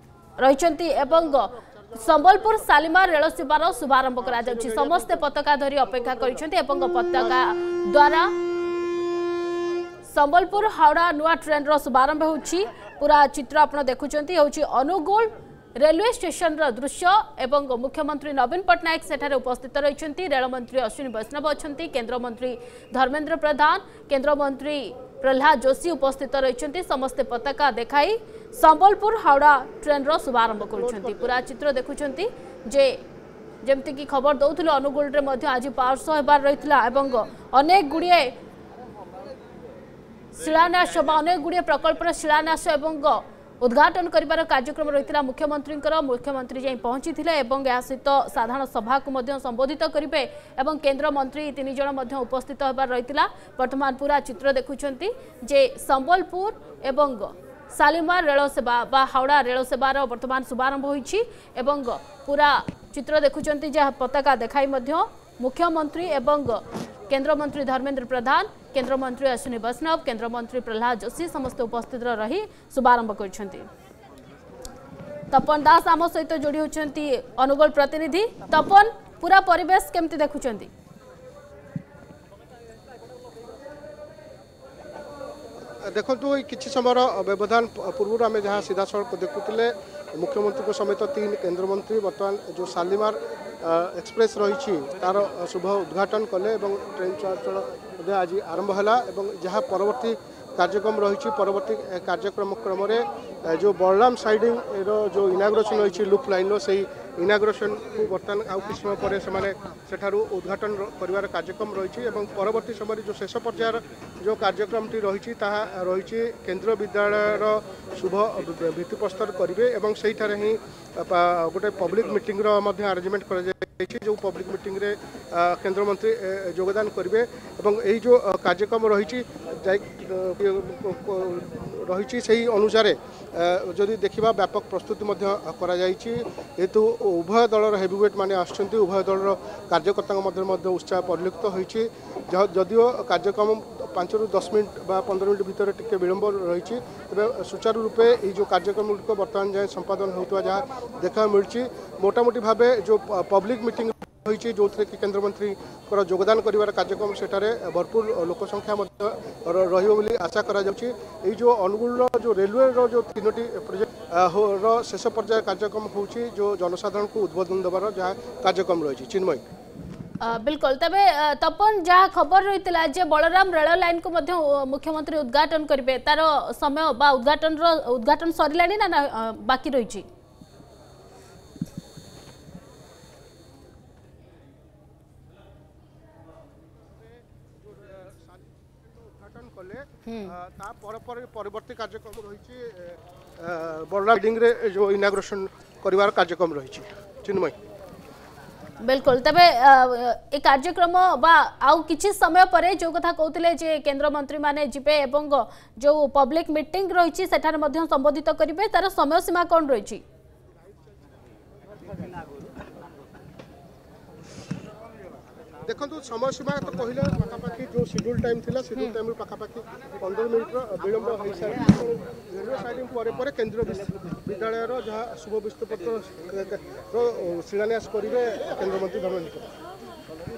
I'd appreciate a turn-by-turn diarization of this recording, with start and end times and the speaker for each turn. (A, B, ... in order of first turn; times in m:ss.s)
0:00.4-0:08.3 A
0:01.2-0:02.6 B
0:04.2-0:05.3 B
0:10.0-0:33.0 A
0:30.6-0:31.4 B
0:33.6-0:38.4 A
0:40.3-1:13.7 A
1:15.3-1:20.7 A
1:25.8-2:49.4 B
2:50.2-3:00.1 A
3:07.6-3:17.6 B
3:10.0-3:10.4 A
3:18.8-3:30.0 A
3:35.6-3:49.5 B